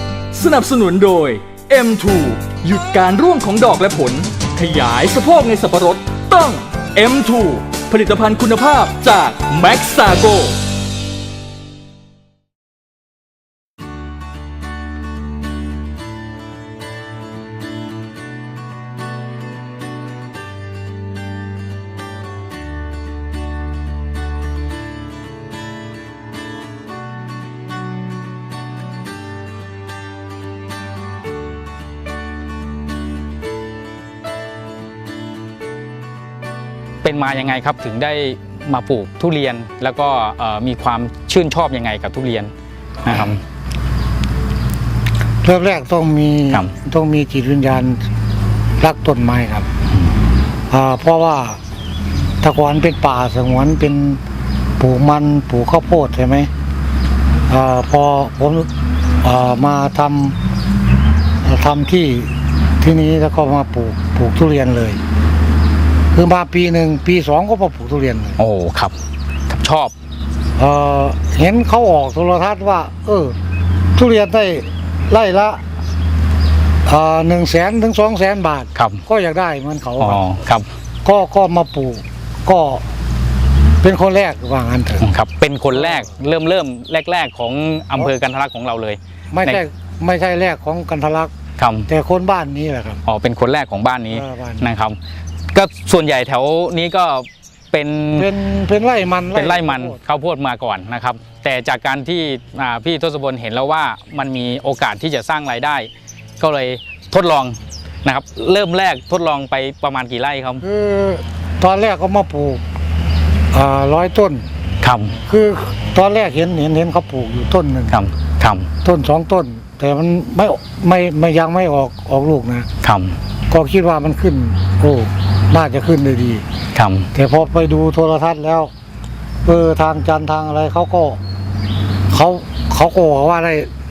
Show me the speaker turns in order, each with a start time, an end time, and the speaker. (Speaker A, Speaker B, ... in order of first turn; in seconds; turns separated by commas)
Speaker A: 0.3-10.6, Speaker B: 37.0-42.5, Speaker B: 43.0-43.4, Speaker C: 45.4-48.0, Speaker C: 48.8-49.7, Speaker C: 50.7-51.6, Speaker C: 52.4-54.2, Speaker C: 54.8-56.5, Speaker C: 57.5-58.7, Speaker C: 59.2-60.4, Speaker C: 61.4-65.0, Speaker C: 66.1-68.4, Speaker B: 68.4-68.9, Speaker B: 69.5-69.9, Speaker C: 70.6-73.4, Speaker C: 74.0-75.6, Speaker C: 76.9-80.2, Speaker B: 78.8-79.0, Speaker B: 80.0-80.7, Speaker C: 81.0-82.8, Speaker C: 83.8-85.1, Speaker B: 85.0-89.6, Speaker C: 85.8-86.1, Speaker C: 89.3-91.3, Speaker B: 91.6-91.9, Speaker C: 91.9-93.0, Speaker B: 93.1-95.0, Speaker C: 94.1-94.7, Speaker B: 95.5-98.3, Speaker C: 98.2-100.0, Speaker B: 99.3-110.6, Speaker C: 110.6-112.6, Speaker C: 113.5-114.5, Speaker B: 114.8-115.1, Speaker C: 115.3-118.0, Speaker B: 117.9-118.7, Speaker C: 118.8-122.7, Speaker B: 122.8-123.2, Speaker C: 123.5-126.4, Speaker B: 126.8-127.1, Speaker C: 127.1-128.7, Speaker C: 129.4-131.2, Speaker C: 132.1-133.7